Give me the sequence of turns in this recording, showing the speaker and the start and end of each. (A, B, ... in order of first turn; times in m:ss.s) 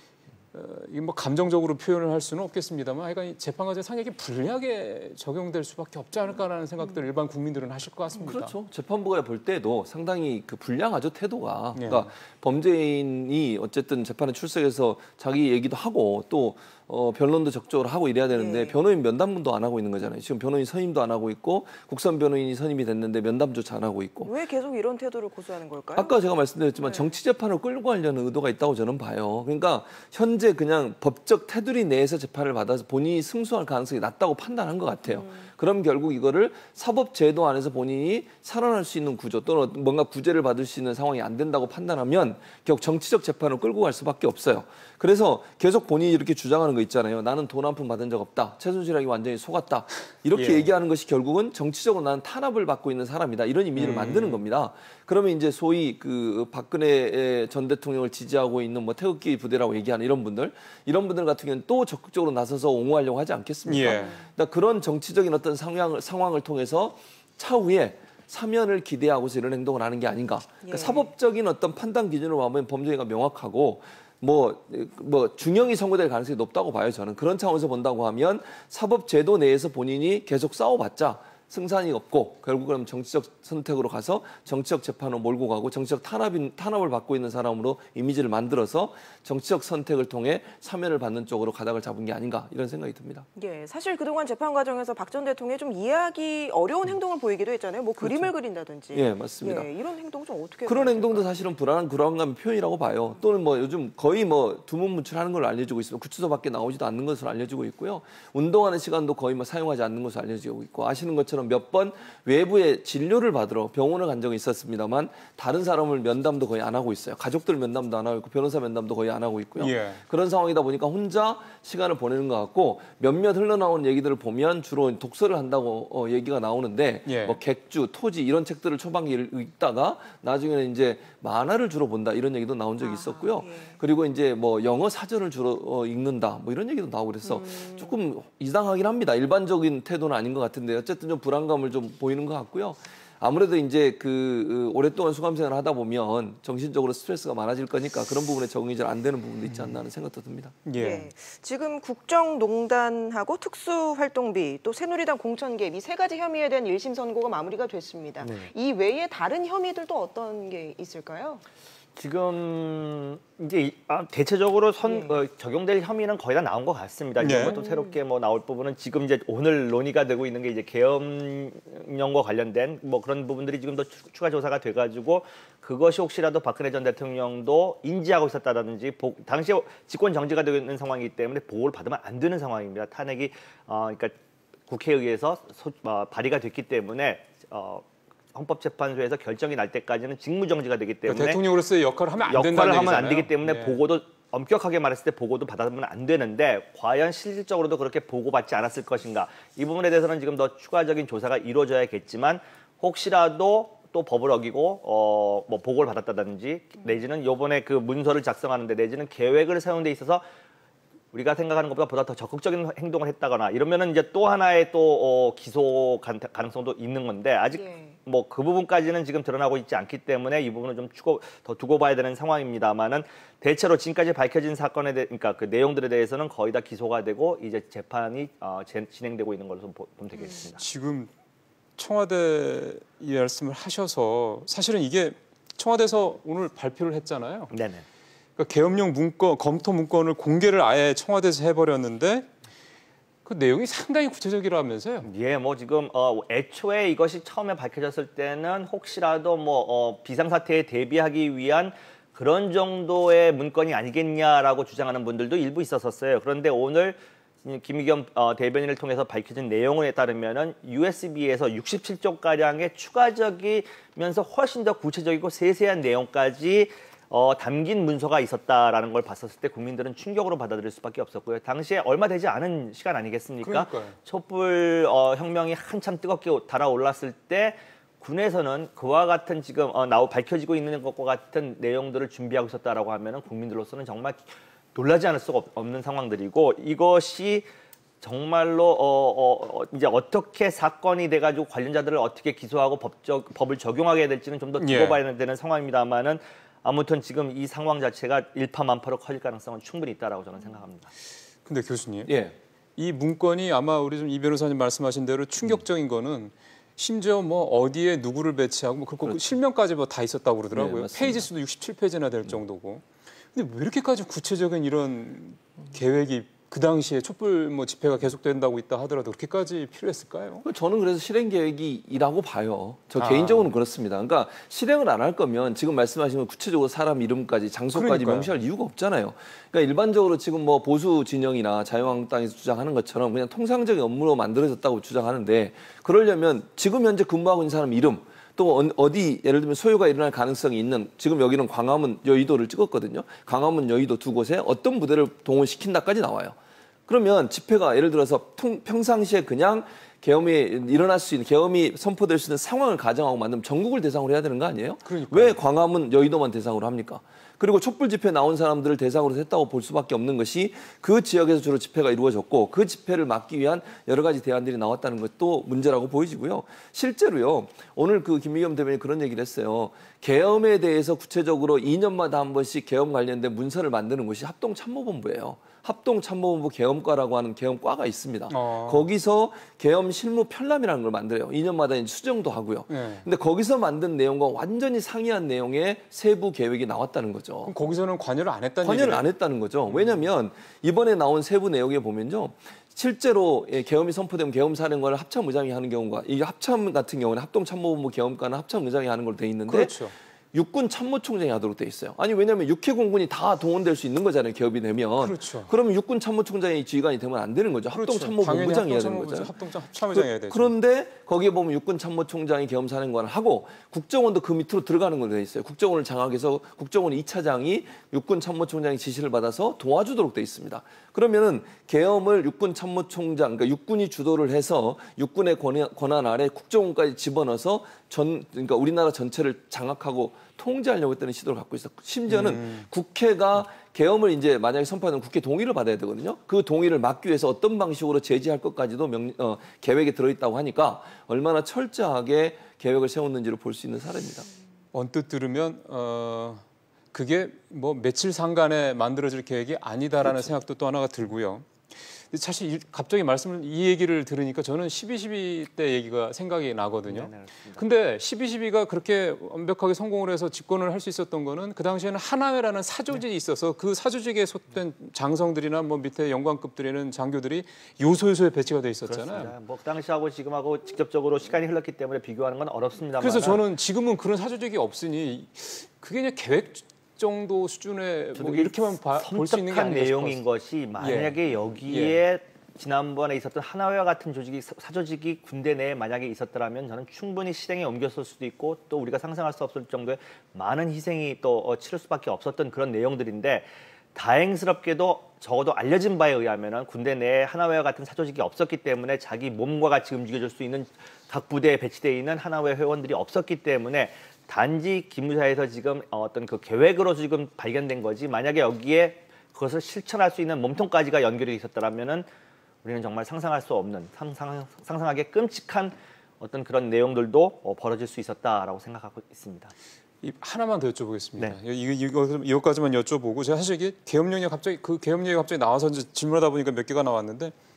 0:00.5-0:08.5 A
0:08.2-0:24.3 B
0:11.8-0:12.1 A
0:18.4-0:18.8 C
0:24.2-0:26.1 C
0:26.0-1:33.3 B
0:26.8-0:27.1 C
0:35.1-0:35.5 C
0:50.3-0:50.7 A
0:53.8-0:54.4 A
1:03.7-1:04.1 A
1:03.9-1:04.2 C
1:10.6-1:11.1 C
1:33.4-1:41.3 C
1:38.0-1:38.3 B
1:38.9-1:39.7 B
1:40.7-2:30.5 B
1:59.6-2:00.0 A
2:07.1-2:07.4 A
2:12.8-2:13.8 C
2:17.2-2:18.0 C
2:30.6-2:31.1 A
2:30.8-2:41.4 C
2:38.2-2:38.5 D
2:42.0-3:04.2 D
2:44.8-2:45.2 C
2:47.2-2:47.6 A
2:47.3-2:47.9 C
3:04.7-3:11.4 D
3:11.1-3:13.8 A
3:12.2-3:30.2 D
3:31.1-3:50.6 D
3:37.5-3:38.0 C
3:50.6-3:51.1 A
3:51.8-3:57.5 A
3:57.5-3:57.8 D
3:58.4-4:02.3 A
4:03.2-4:05.1 A
4:05.0-4:47.5 D
4:33.4-4:34.0 A
4:48.0-5:00.9 D
4:54.6-4:55.0 A
5:01.5-5:02.1 A
5:02.1-5:02.4 B
5:02.8-5:20.4 A
5:10.5-5:11.2 B
5:20.4-5:46.4 B
5:23.0-5:23.5 A
5:27.7-5:28.3 A
5:46.9-6:27.5 B
5:54.8-5:55.4 A
6:18.3-6:18.9 A
6:22.7-6:23.0 A
6:27.4-6:29.1 A
6:28.6-6:39.8 B
6:39.5-6:40.0 A
6:40.3-6:49.3 B
6:45.0-6:45.5 A
6:47.7-6:50.5 A
6:49.9-7:24.3 B
7:12.1-7:12.6 A
7:24.7-7:49.3 A
7:36.8-7:37.7 D
7:48.8-7:53.4 D
7:53.0-8:00.2 A
7:58.2-8:32.1 D
8:00.8-8:02.0 A
8:32.6-8:39.5 D
8:40.0-8:47.4 A